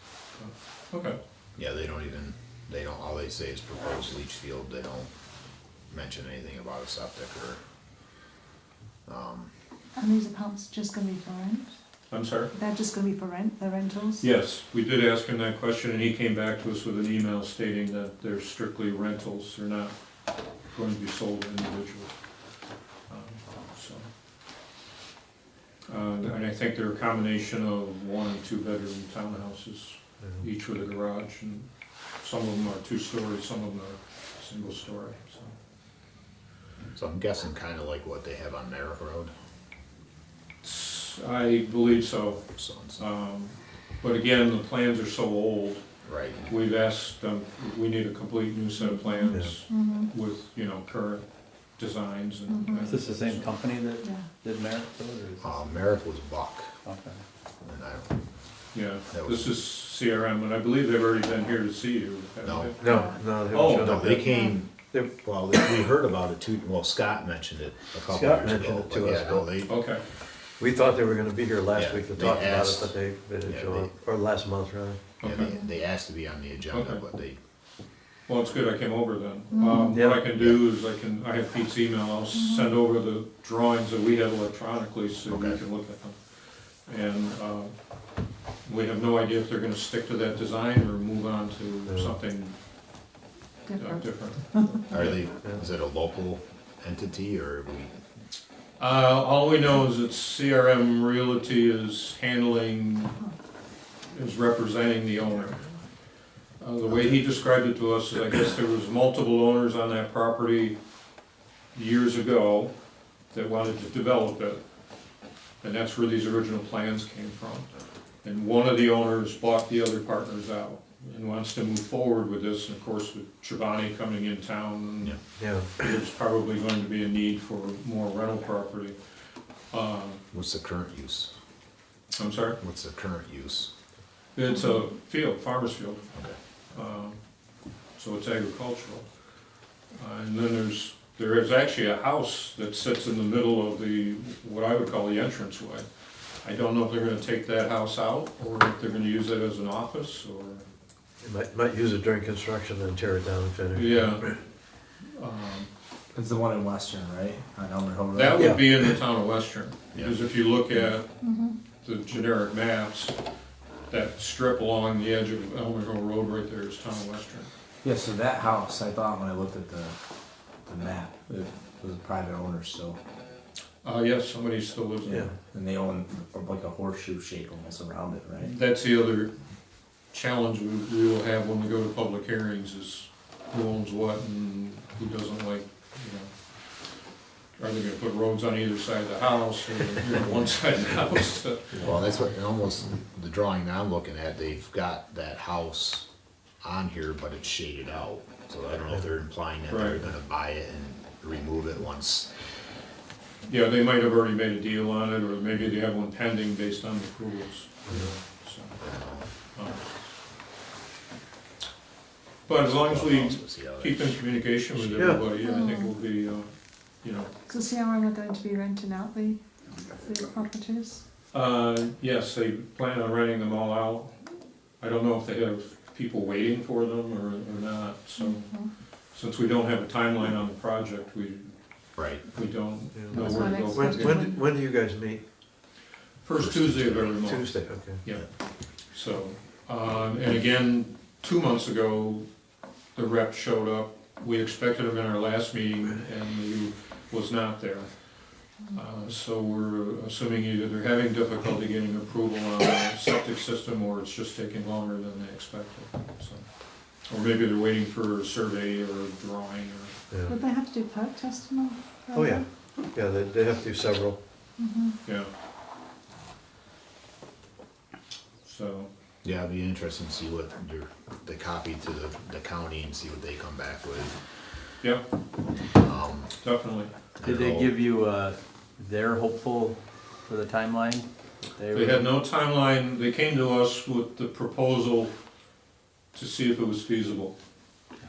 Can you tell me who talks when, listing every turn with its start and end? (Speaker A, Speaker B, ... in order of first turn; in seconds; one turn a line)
Speaker A: 0.3-1.2
Speaker B: 1.6-5.1
Speaker B: 5.9-7.6
Speaker B: 9.1-9.5
Speaker C: 9.9-11.7
Speaker A: 12.1-12.5
Speaker C: 12.5-14.2
Speaker A: 14.2-19.9
Speaker A: 20.7-22.2
Speaker A: 23.1-24.1
Speaker A: 25.9-35.5
Speaker B: 36.9-39.3
Speaker A: 40.6-42.4
Speaker B: 42.5-43.0
Speaker A: 43.0-45.8
Speaker B: 46.0-46.5
Speaker A: 46.5-51.2
Speaker C: 48.8-50.1
Speaker A: 51.8-53.5
Speaker C: 52.5-53.0
Speaker D: 52.8-55.6
Speaker C: 54.0-54.3
Speaker B: 55.4-56.7
Speaker D: 56.8-57.2
Speaker B: 57.6-58.1
Speaker A: 58.7-62.8
Speaker B: 59.1-59.5
Speaker B: 62.4-62.8
Speaker E: 62.8-64.3
Speaker C: 62.8-63.2
Speaker A: 63.5-64.1
Speaker B: 63.8-69.7
Speaker C: 64.2-64.5
Speaker E: 68.1-69.6
Speaker A: 69.7-70.0
Speaker E: 70.6-75.1
Speaker B: 71.7-72.9
Speaker B: 73.4-73.9
Speaker A: 75.2-75.5
Speaker B: 75.2-77.4
Speaker C: 75.4-75.7
Speaker A: 76.7-77.0
Speaker A: 78.3-86.2
Speaker C: 79.5-80.0
Speaker B: 80.3-80.6
Speaker C: 82.3-82.7
Speaker B: 85.3-85.6
Speaker A: 86.8-87.7
Speaker A: 88.6-92.5
Speaker E: 91.9-92.1
Speaker C: 93.7-94.9
Speaker A: 93.8-95.2
Speaker B: 94.9-97.9
Speaker A: 98.8-103.2
Speaker A: 104.1-105.7
Speaker A: 106.6-110.8
Speaker A: 111.7-112.7
Speaker A: 113.3-114.6
Speaker A: 115.6-117.7
Speaker A: 118.2-129.0
Speaker E: 125.4-125.7
Speaker A: 129.7-130.2
Speaker B: 130.3-131.3
Speaker A: 132.2-132.6
Speaker B: 132.6-133.7
Speaker A: 134.3-136.1
Speaker A: 136.7-137.2
Speaker A: 137.9-139.1
Speaker A: 140.0-145.8
Speaker A: 146.4-150.7
Speaker E: 151.2-154.3
Speaker A: 153.7-154.4
Speaker A: 155.0-155.7
Speaker F: 156.1-158.6
Speaker A: 158.1-161.1
Speaker E: 158.4-158.6
Speaker C: 161.2-161.6
Speaker A: 161.8-163.2
Speaker A: 163.9-167.5
Speaker F: 167.8-170.0
Speaker F: 170.6-173.0
Speaker A: 173.8-175.3
Speaker F: 175.3-178.6
Speaker A: 178.4-179.3
Speaker A: 180.1-186.3
Speaker A: 187.6-191.9
Speaker B: 191.8-196.0
Speaker B: 196.6-202.3
Speaker A: 199.7-200.0
Speaker A: 203.4-208.8
Speaker B: 208.8-209.3
Speaker A: 209.5-209.9
Speaker A: 212.4-217.3
Speaker B: 212.5-214.2
Speaker E: 214.9-215.2
Speaker C: 215.2-215.9
Speaker C: 217.5-219.4
Speaker C: 219.9-221.0
Speaker A: 221.3-224.2
Speaker A: 224.8-228.6
Speaker C: 228.2-228.7
Speaker A: 229.1-234.3
Speaker B: 231.9-232.2
Speaker E: 232.9-235.2
Speaker C: 233.1-234.5
Speaker A: 236.2-242.2
Speaker B: 236.4-237.1
Speaker E: 237.2-238.0
Speaker A: 242.9-247.9
Speaker A: 248.7-256.5
Speaker A: 257.0-259.9
Speaker E: 260.1-260.4
Speaker C: 260.2-262.4
Speaker E: 262.1-264.2
Speaker C: 264.6-265.0
Speaker A: 268.4-268.9
Speaker B: 269.2-274.1
Speaker B: 275.8-276.3
Speaker A: 276.4-276.9
Speaker B: 277.2-277.7
Speaker D: 277.2-282.1
Speaker A: 281.7-285.1
Speaker A: 286.1-287.3